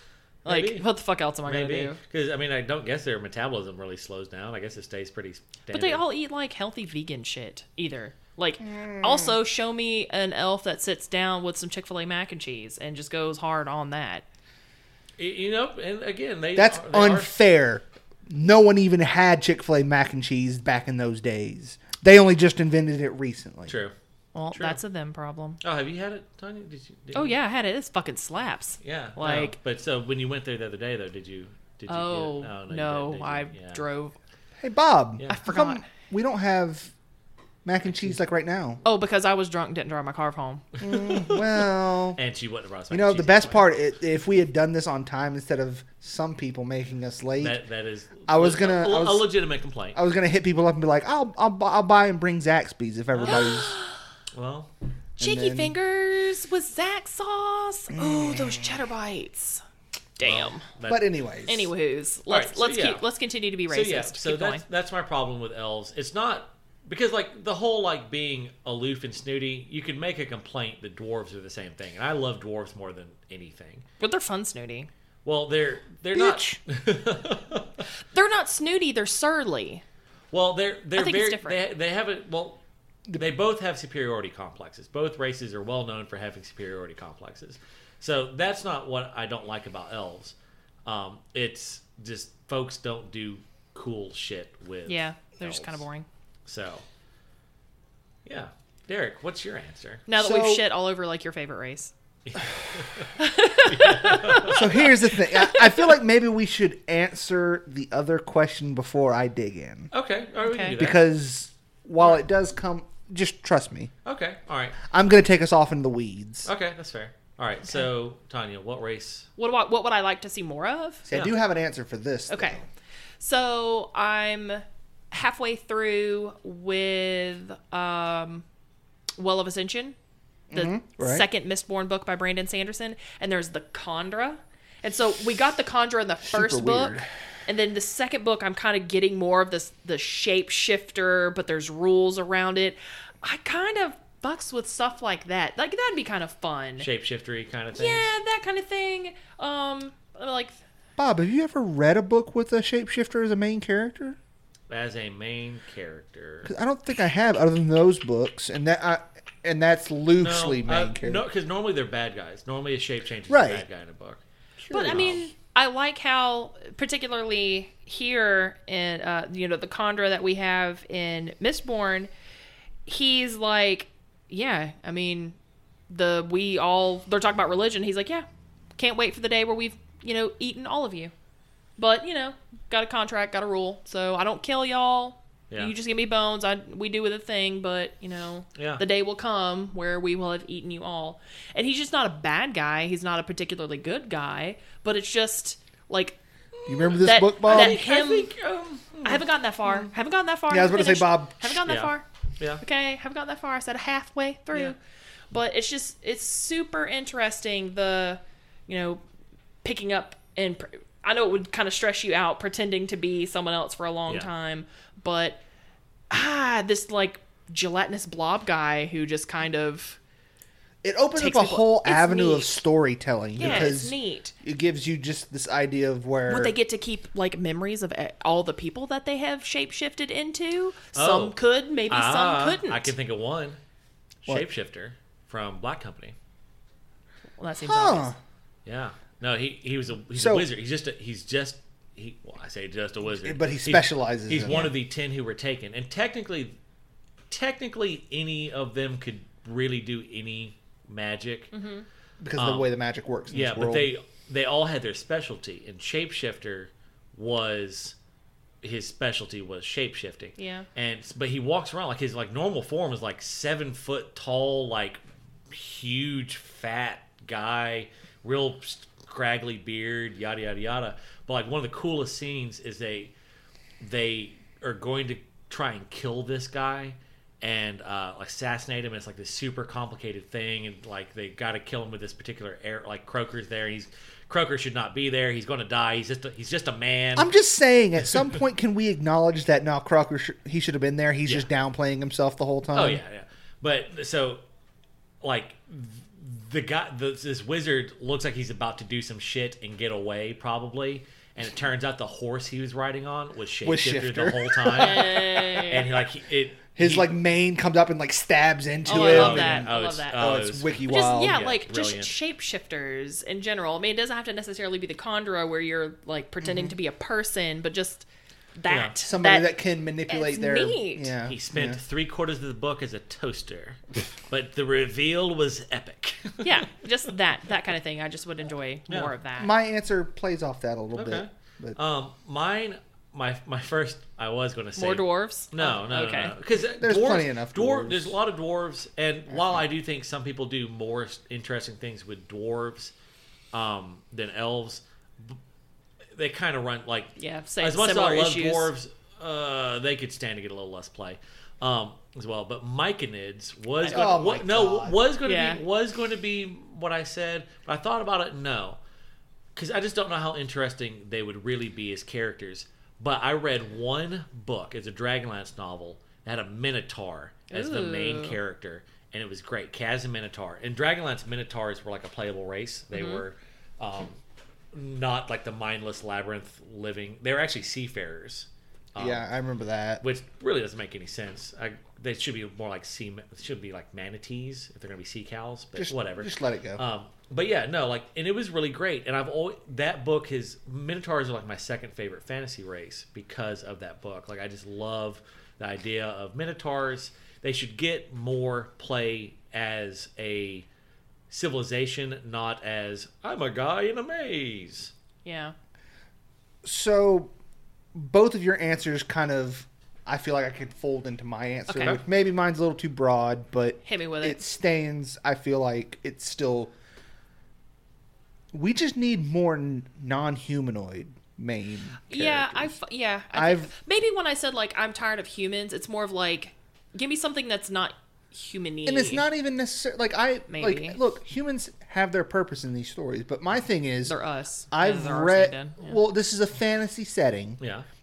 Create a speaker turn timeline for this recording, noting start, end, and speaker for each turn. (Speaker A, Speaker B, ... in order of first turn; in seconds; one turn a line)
Speaker A: 0.4-0.8
Speaker B: 0.5-2.0
Speaker A: 1.4-6.0
Speaker B: 5.7-14.2
Speaker C: 8.6-9.4
Speaker A: 15.2-17.3
Speaker C: 16.5-23.8
Speaker A: 23.7-23.9
Speaker B: 24.3-25.6
Speaker A: 24.5-24.8
Speaker A: 25.6-27.4
Speaker B: 27.1-29.6
Speaker A: 28.8-33.8
Speaker B: 31.9-34.1
Speaker C: 34.6-36.9
Speaker B: 35.3-35.8
Speaker C: 37.6-38.8
Speaker A: 37.9-38.1
Speaker B: 38.8-40.6
Speaker A: 40.8-43.7
Speaker C: 40.8-42.2
Speaker C: 42.9-47.6
Speaker A: 47.4-50.0
Speaker C: 48.3-49.3
Speaker C: 49.9-53.8
Speaker A: 53.2-53.4
Speaker B: 53.3-54.0
Speaker A: 54.3-54.7
Speaker B: 55.2-59.6
Speaker C: 55.2-55.7
Speaker C: 57.9-58.8
Speaker B: 60.2-60.6
Speaker A: 60.2-61.0
Speaker C: 60.9-61.7
Speaker B: 61.5-64.6
Speaker A: 62.3-63.0
Speaker A: 63.7-73.8
Speaker B: 74.0-74.9
Speaker A: 75.2-77.8
Speaker C: 76.1-76.6
Speaker B: 78.0-79.8
Speaker A: 80.3-82.6
Speaker B: 81.0-81.6
Speaker A: 83.1-95.8
Speaker B: 94.9-96.0
Speaker A: 96.5-96.8
Speaker A: 98.2-100.1
Speaker B: 100.1-101.9
Speaker C: 100.1-100.6
Speaker A: 102.2-103.1
Speaker B: 103.2-105.9
Speaker A: 103.7-104.7
Speaker C: 104.5-109.9
Speaker A: 109.9-111.0
Speaker B: 110.4-110.8
Speaker C: 110.7-113.9
Speaker A: 114.0-114.8
Speaker C: 114.8-116.5
Speaker A: 116.5-119.3
Speaker B: 119.4-121.1
Speaker C: 121.0-122.7
Speaker B: 122.3-122.6
Speaker B: 123.2-128.4
Speaker B: 129.2-129.9
Speaker C: 130.5-131.2
Speaker B: 130.5-146.9
Speaker C: 136.2-137.1
Speaker A: 146.8-148.1
Speaker B: 147.7-150.6
Speaker C: 151.0-154.2
Speaker A: 154.7-156.5
Speaker C: 156.4-161.2
Speaker A: 160.2-164.2
Speaker C: 163.3-163.6
Speaker C: 164.6-165.2
Speaker B: 164.7-172.1
Speaker A: 164.8-165.2
Speaker B: 172.8-175.4
Speaker B: 175.9-178.2
Speaker B: 178.8-181.1
Speaker B: 181.8-196.2
Speaker A: 188.5-188.8
Speaker A: 196.6-199.9
Speaker C: 196.7-197.8
Speaker B: 197.0-198.3
Speaker B: 199.0-202.1
Speaker C: 200.5-201.6
Speaker A: 201.7-202.6
Speaker B: 202.6-204.8
Speaker B: 205.3-209.0
Speaker B: 209.6-215.4
Speaker B: 216.1-220.0
Speaker C: 220.8-226.5
Speaker B: 221.2-222.6
Speaker B: 223.4-224.3
Speaker A: 223.4-223.7
Speaker B: 226.3-232.9
Speaker A: 230.9-233.6
Speaker A: 234.2-236.1
Speaker B: 237.4-238.1
Speaker C: 237.7-238.2
Speaker A: 238.7-246.5
Speaker C: 240.1-240.5
Speaker C: 243.2-244.7
Speaker A: 247.3-251.5
Speaker B: 251.5-251.8
Speaker C: 252.2-253.9
Speaker A: 252.4-252.7
Speaker A: 253.3-257.9
Speaker A: 258.6-273.1
Speaker B: 260.4-260.7
Speaker A: 273.8-287.3
Speaker C: 287.1-293.0
Speaker A: 292.7-294.4
Speaker A: 295.2-307.1
Speaker C: 303.6-305.9
Speaker B: 304.7-305.9
Speaker C: 306.8-311.4
Speaker B: 308.9-310.2
Speaker A: 308.9-312.1
Speaker B: 310.9-319.5
Speaker C: 316.4-316.8
Speaker A: 318.7-318.9
Speaker C: 319.0-321.8
Speaker B: 320.1-321.1
Speaker A: 321.2-326.7
Speaker B: 326.4-329.5
Speaker C: 329.4-331.8
Speaker A: 330.9-342.9
Speaker B: 334.8-336.3
Speaker C: 336.8-338.2
Speaker C: 339.3-339.6
Speaker A: 343.5-345.4
Speaker A: 346.1-358.8
Speaker B: 347.2-348.7
Speaker B: 353.8-354.1
Speaker C: 353.9-355.0
Speaker B: 355.2-355.6
Speaker A: 359.5-374.2
Speaker B: 367.5-368.4
Speaker B: 372.9-373.2
Speaker A: 374.7-379.2
Speaker C: 379.0-380.0
Speaker A: 380.0-400.6
Speaker C: 385.8-386.8
Speaker A: 401.3-404.9
Speaker B: 405.2-405.5
Speaker C: 406.6-407.3
Speaker C: 407.9-416.7
Speaker B: 411.7-412.0
Speaker B: 413.8-414.4
Speaker C: 418.5-422.8
Speaker B: 422.1-429.2
Speaker C: 423.3-423.7
Speaker C: 428.9-434.1
Speaker B: 430.5-431.0
Speaker B: 434.0-436.0
Speaker C: 434.7-437.6
Speaker A: 437.6-437.8